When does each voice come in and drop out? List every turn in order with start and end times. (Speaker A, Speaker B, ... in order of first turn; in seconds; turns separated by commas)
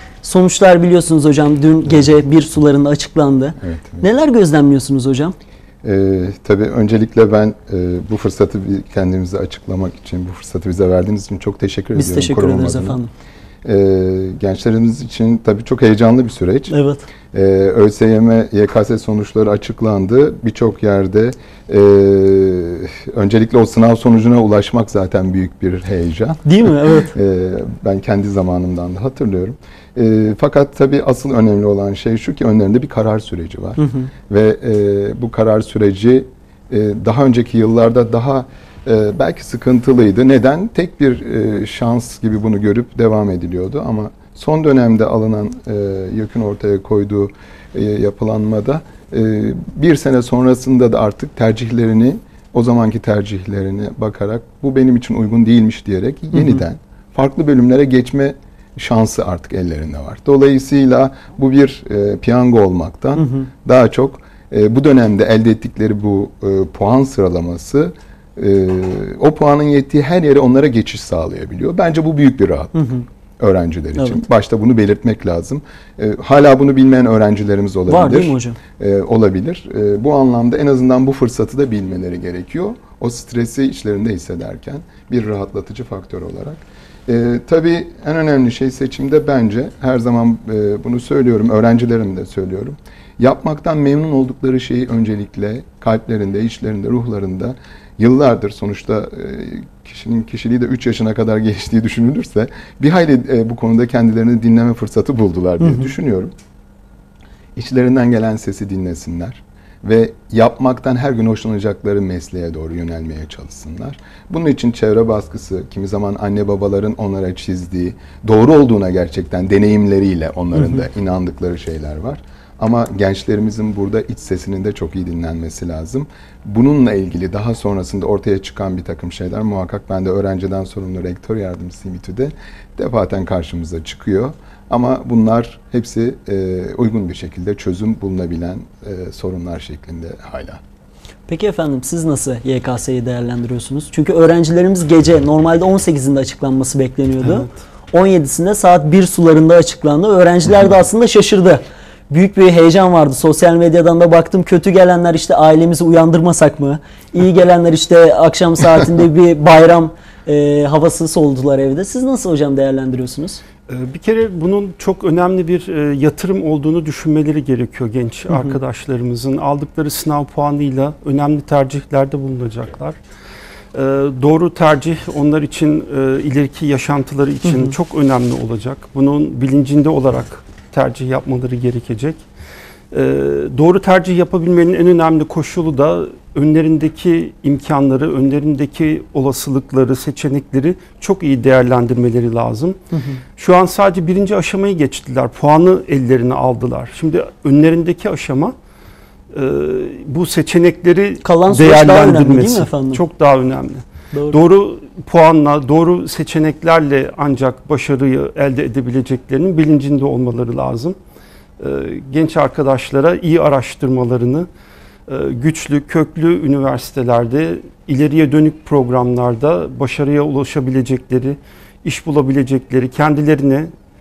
Speaker A: 0.2-5.3, Speaker B: 3.6-4.0, Speaker B: 5.8-13.0, Speaker A: 11.9-13.1, Speaker B: 13.6-16.7, Speaker A: 16.7-17.1, Speaker B: 17.3-72.8, Speaker A: 26.4-27.1, Speaker A: 33.8-34.1, Speaker A: 56.3-56.6, Speaker A: 63.2-63.5, Speaker A: 72.7-73.0, Speaker B: 73.4-106.3, Speaker A: 77.9-78.6, Speaker B: 107.5-140.6, Speaker A: 141.3-163.4, Speaker C: 163.7-173.0, Speaker A: 168.3-168.6, Speaker C: 173.7-182.2, Speaker A: 177.4-177.7, Speaker C: 182.9-192.8, Speaker A: 192.9-193.2, Speaker C: 193.3-198.5, Speaker C: 199.3-210.9, Speaker A: 201.2-203.0, Speaker C: 211.6-214.5, Speaker C: 215.1-223.7